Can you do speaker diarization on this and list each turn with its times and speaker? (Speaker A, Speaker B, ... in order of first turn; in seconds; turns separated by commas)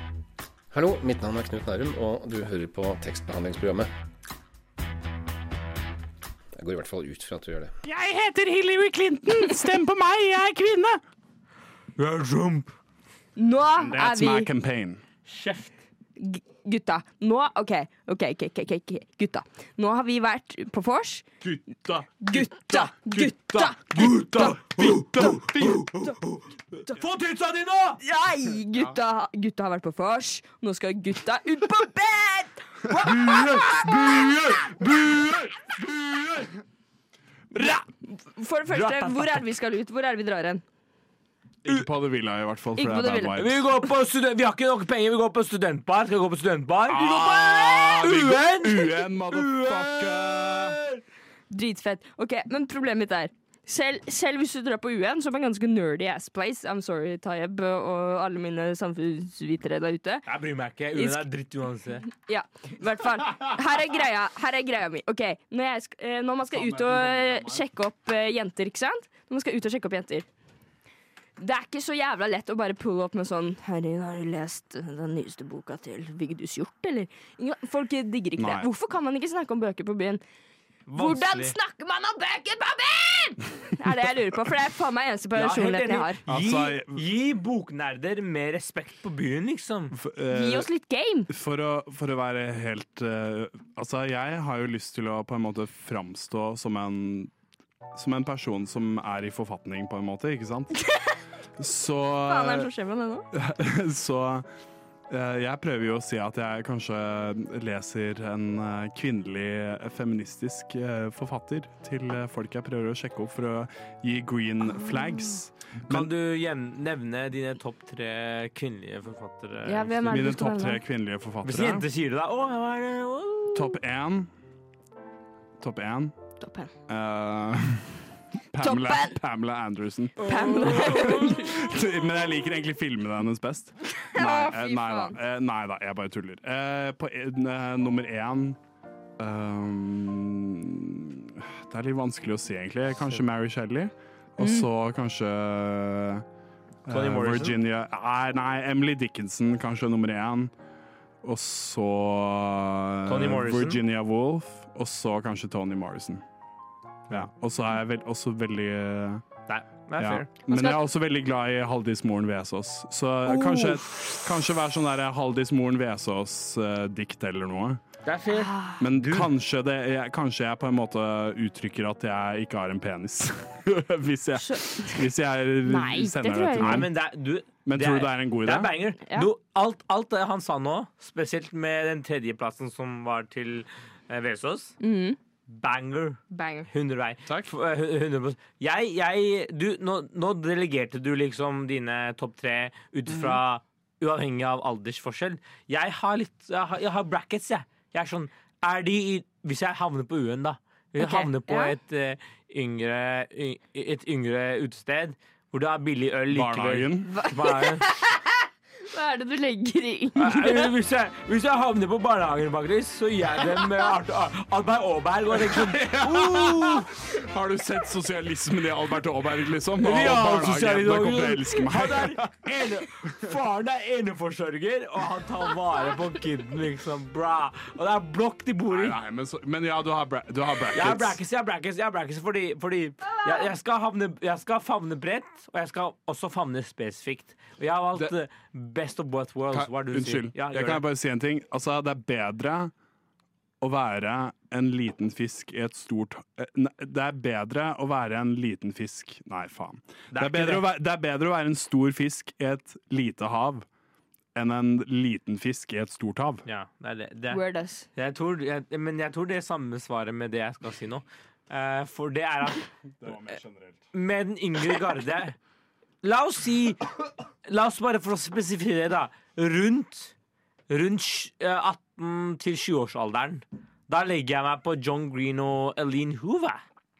Speaker A: 0.7-3.9, Speaker A: 6.6-7.7, Speaker B: 7.8-11.0, Speaker C: 12.0-12.7, Speaker D: 13.4-14.5, Speaker B: 13.8-15.0, Speaker C: 15.3-15.7, Speaker D: 16.2-21.2, Speaker B: 21.4-26.1, Speaker D: 22.2-24.6, Speaker C: 23.9-28.0, Speaker D: 28.0-33.1, Speaker C: 32.9-36.5, Speaker B: 33.0-34.3, Speaker C: 37.5-37.8, Speaker D: 38.0-40.6, Speaker C: 38.7-39.4, Speaker B: 41.6-43.6, Speaker D: 42.8-43.4, Speaker C: 43.4-51.0, Speaker B: 46.9-50.8, Speaker D: 51.5-60.2, Speaker C: 60.2-62.0, Speaker D: 60.9-61.2, Speaker D: 62.1-70.3, Speaker B: 66.5-67.6, Speaker D: 71.4-80.2, Speaker B: 78.4-78.7, Speaker C: 80.9-81.5, Speaker D: 80.9-86.2, Speaker C: 85.3-89.9, Speaker B: 86.3-87.0, Speaker B: 89.9-90.7, Speaker D: 90.3-91.3, Speaker B: 91.3-97.3, Speaker B: 97.9-100.8, Speaker B: 101.6-102.7, Speaker D: 102.2-103.3, Speaker B: 103.3-104.5, Speaker B: 105.1-116.1, Speaker C: 115.9-120.2, Speaker D: 119.7-120.8, Speaker B: 120.1-121.8, Speaker C: 121.4-123.8, Speaker B: 123.5-124.3, Speaker B: 125.6-126.1, Speaker D: 126.4-126.7, Speaker B: 126.9-138.6, Speaker D: 128.6-129.2, Speaker C: 130.2-131.3, Speaker D: 130.2-131.5, Speaker D: 133.9-135.2, Speaker B: 139.2-146.2, Speaker D: 144.4-144.7, Speaker B: 146.8-150.5, Speaker C: 146.9-147.6, Speaker B: 151.2-156.2, Speaker C: 153.1-153.8, Speaker B: 157.1-159.2, Speaker C: 159.5-160.3, Speaker B: 160.0-167.8, Speaker D: 160.5-160.8, Speaker C: 168.1-169.3, Speaker D: 168.3-168.8, Speaker B: 168.8-176.9, Speaker D: 174.3-175.0, Speaker D: 175.6-176.8, Speaker C: 176.6-184.7, Speaker B: 177.6-178.7, Speaker D: 184.8-185.2, Speaker C: 185.5-207.8, Speaker D: 186.3-186.7, Speaker B: 187.2-187.5, Speaker D: 201.0-201.7, Speaker B: 206.3-207.1, Speaker D: 207.1-208.2, Speaker D: 208.9-210.7, Speaker C: 210.2-216.9, Speaker B: 215.4-223.1, Speaker C: 219.8-228.9, Speaker B: 228.7-231.2, Speaker C: 230.7-240.8, Speaker B: 239.5-242.7, Speaker B: 243.6-253.7, Speaker C: 250.1-250.7, Speaker B: 254.3-256.4, Speaker C: 256.4-257.4, Speaker D: 257.3-257.9, Speaker C: 257.9-262.7, Speaker B: 263.0-263.8, Speaker C: 263.9-265.4, Speaker C: 266.0-266.9, Speaker C: 267.4-270.1, Speaker C: 270.7-276.6